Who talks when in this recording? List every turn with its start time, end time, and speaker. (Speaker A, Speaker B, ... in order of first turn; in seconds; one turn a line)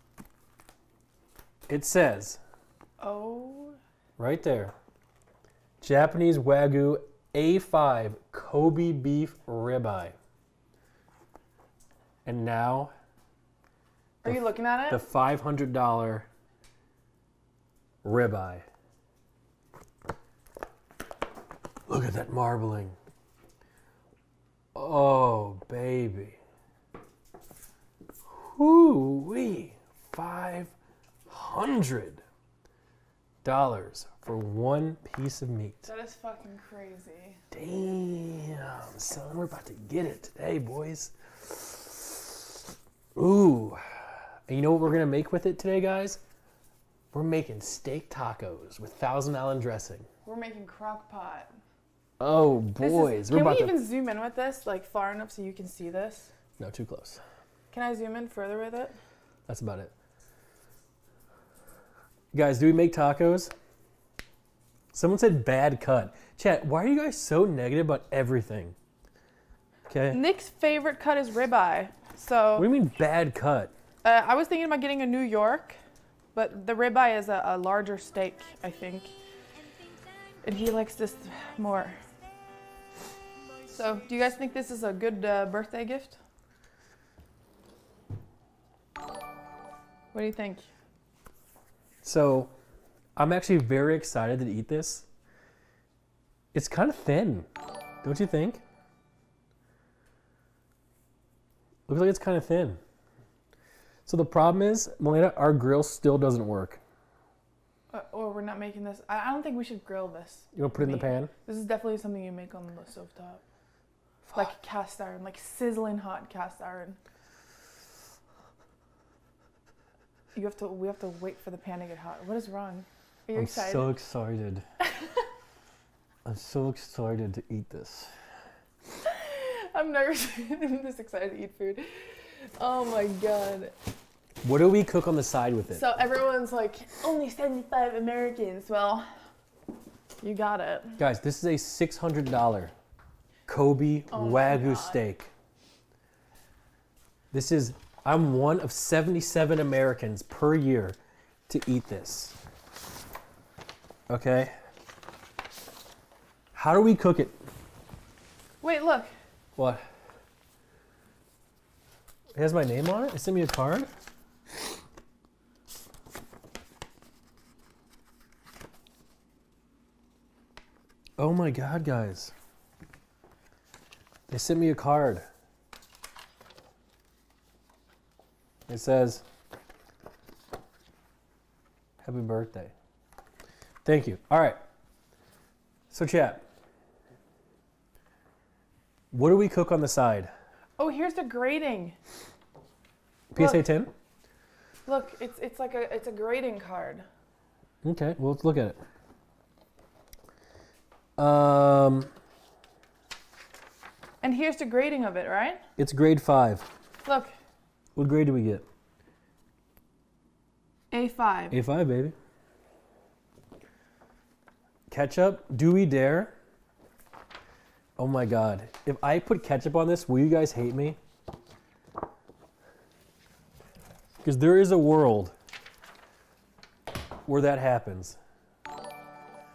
Speaker A: 1.7-2.4
Speaker B: 3.0-3.8
Speaker A: 4.2-4.7
Speaker A: 5.8-10.1
Speaker A: 12.2-12.9
Speaker B: 14.2-15.0
Speaker A: 14.2-16.3
Speaker A: 18.0-18.6
Speaker A: 21.9-22.9
Speaker A: 24.7-26.4
Speaker A: 28.3-30.7
Speaker A: 31.3-32.2
Speaker A: 33.4-35.9
Speaker B: 35.9-37.4
Speaker A: 37.5-42.4
Speaker A: 43.1-46.2
Speaker A: 47.1-50.1
Speaker B: 50.2-51.5
Speaker A: 52.2-53.7
Speaker B: 52.8-56.3
Speaker A: 56.6-57.2
Speaker B: 57.7-58.9
Speaker A: 59.5-59.9
Speaker A: 62.3-63.5
Speaker A: 64.9-68.7
Speaker A: 69.9-70.2
Speaker B: 70.1-72.7
Speaker A: 72.6-73.7
Speaker B: 74.0-75.8
Speaker B: 76.3-79.1
Speaker B: 80.4-82.0
Speaker B: 83.7-86.2
Speaker B: 90.1-90.7
Speaker A: 92.0-92.5
Speaker A: 93.2-95.1
Speaker A: 96.5-97.5
Speaker A: 98.0-98.6
Speaker A: 101.9-102.8
Speaker A: 104.0-106.8
Speaker B: 107.9-113.4
Speaker A: 110.5-111.3
Speaker B: 114.3-117.0
Speaker B: 120.3-123.9
Speaker A: 123.3-124.6
Speaker B: 124.8-125.2
Speaker A: 126.2-128.1
Speaker B: 129.0-133.7
Speaker A: 134.4-135.8
Speaker B: 135.7-139.1
Speaker B: 140.2-141.0
Speaker A: 141.0-142.7
Speaker A: 143.5-145.3
Speaker B: 144.1-145.0
Speaker A: 147.3-151.0
Speaker A: 151.5-152.3
Speaker A: 154.1-154.5
Speaker A: 156.5-157.3
Speaker B: 158.6-159.1
Speaker A: 159.6-159.8
Speaker A: 162.3-163.9
Speaker A: 171.2-172.3
Speaker A: 174.3-175.3
Speaker A: 178.7-179.2
Speaker A: 182.0-182.7
Speaker A: 183.8-184.6
Speaker A: 185.9-186.4
Speaker A: 189.1-190.3
Speaker B: 190.8-191.9
Speaker A: 193.3-193.9
Speaker B: 193.3-193.6
Speaker B: 194.8-197.1
Speaker A: 197.8-198.8
Speaker A: 201.2-202.1
Speaker B: 204.2-205.6
Speaker A: 205.8-206.7
Speaker B: 207.0-207.3
Speaker A: 207.9-208.6
Speaker B: 210.9-211.6
Speaker A: 211.5-212.1
Speaker A: 214.9-216.3
Speaker A: 218.0-221.0
Speaker A: 224.2-225.3
Speaker A: 227.3-228.2